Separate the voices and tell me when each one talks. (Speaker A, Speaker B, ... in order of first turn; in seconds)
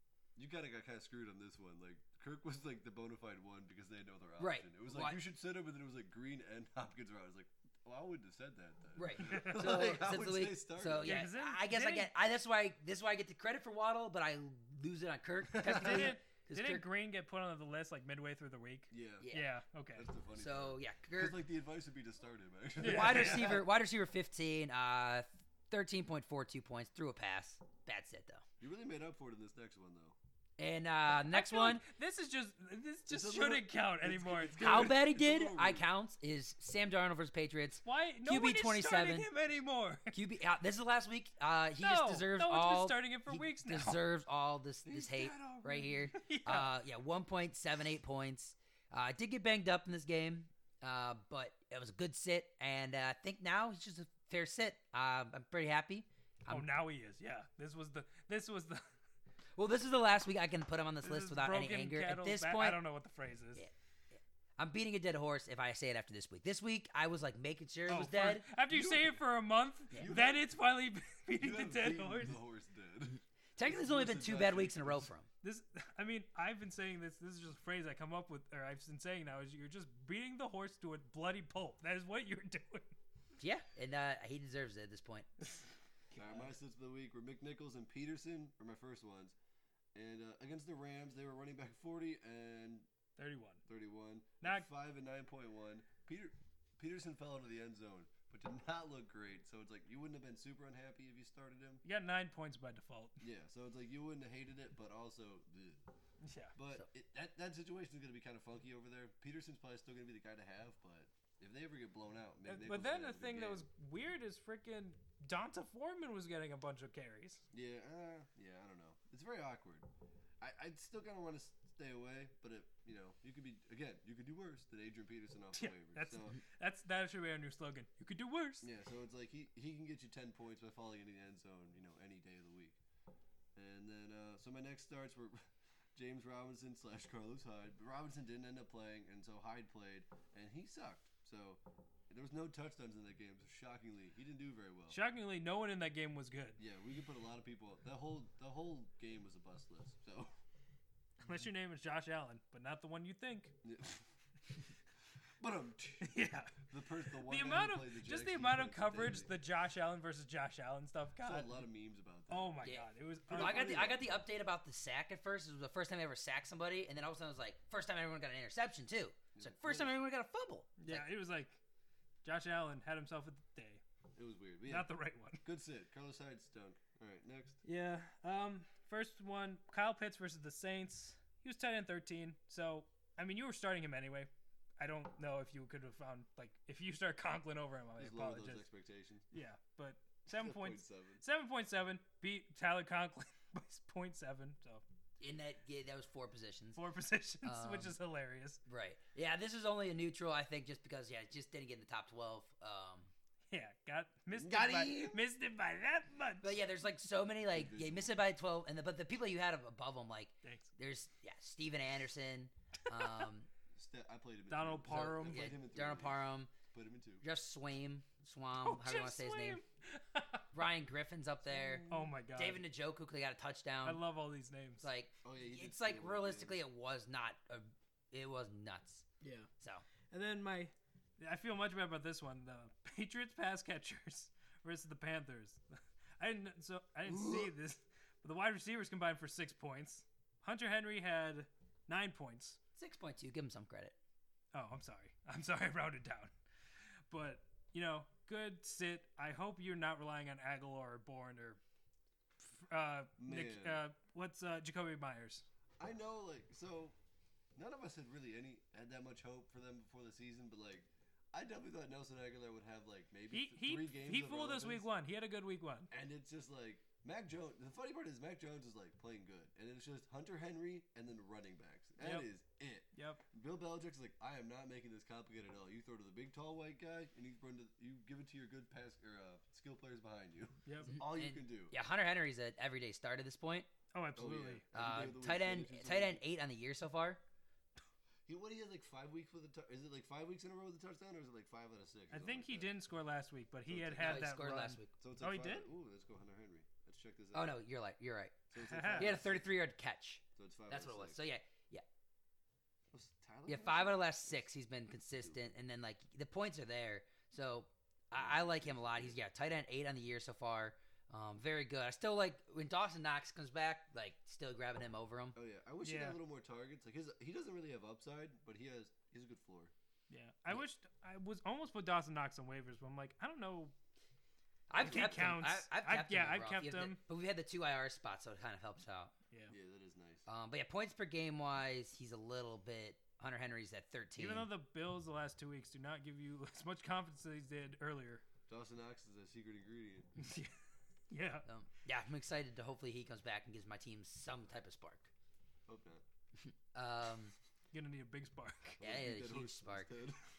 Speaker A: 0.4-11.3, 15.5-16.1, 18.9-19.3, 19.9-23.7, 28.6-30.2, 33.1-35.9, 44.9-46.0, 68.7-69.2, 70.0-70.6, 71.4-75.1, 86.2-89.3, 89.9-92.9, 93.7-101.8, 103.2-105.8, 106.6-113.7, 117.5-119.9, 120.4-126.4, 128.6-132.8, 133.6-135.4, 135.9-145.0, 146.6-150.3, 153.6-154.1, 155.4-159.3, 161.2-162.7, 163.3-164.1, 169.3-170.0, 174.2-174.9, 175.4-177.6, 188.0-189.3, 190.3-191.2, 204.4-205.2, 207.5-208.1, 213.8-217.2, 225.2-226.6, 237.2-237.4, 253.2-253.8, 255.8-257.0, 257.6-264.9, 265.9-281.7, 284.2-286.2, 288.3-292.7, 293.7-294.3, 295.0-297.6, 298.5-299.5, 300.4-301.2, 302.9-304.5, 308.1-309.2, 315.4-319.7, 329.5-330.3, 338.5-340.1, 345.7-346.0, 348.8-350.2
Speaker B: 4.4-5.2, 9.0-16.9, 19.2-19.5, 20.4-21.4, 22.8-28.4, 30.6-31.9, 34.6-39.3, 40.1-56.7, 59.6-62.8, 63.5-68.5, 73.6-75.3, 83.4-85.3, 162.6-171.1, 195.2-196.8, 197.4-198.0, 198.7-203.1, 206.4-213.5, 214.9-216.5, 217.2-219.6, 220.5-224.0, 224.8-229.1, 229.6-229.9, 242.8-243.9, 280.9-283.7, 284.7-287.2, 294.0-294.9, 297.3-298.4, 298.9-301.8, 303.5-315.4, 324.7-329.1, 330.3-334.5, 341.4-345.1, 346.4-347.3, 348.8-349.9
Speaker C: 9.2-9.6, 11.0-12.1, 15.6-20.1, 22.8-23.6, 31.2-34.9, 37.8-40.2, 41.8-44.0, 45.9-46.7, 56.5-58.9, 61.0-63.6, 67.9-72.4, 75.4-83.0, 86.2-86.4, 93.2-93.6, 94.4-94.7, 101.8-103.2, 106.2-106.5, 112.5-117.5, 125.5-128.7, 144.9-146.6, 151.2-153.6, 156.0-161.6, 162.3-163.9, 170.8-171.6, 172.2-173.8, 174.7-175.4, 177.6-188.7, 189.3-194.8, 196.8-198.6, 203.5-206.6, 210.4-210.7, 214.5-215.5, 218.6-220.5, 221.8-222.6, 223.8-224.8, 229.2-229.5, 230.1-242.6, 244.5-246.3, 247.1-251.6, 252.4-255.5, 263.3-265.9, 272.0-272.3, 272.9-273.2, 280.7-280.9, 283.9-284.6, 292.1-295.7, 298.6-299.2, 315.8-316.2, 320.1-323.7, 324.8-327.0, 334.2-338.2, 340.2-340.5, 341.1-341.5, 347.7-348.8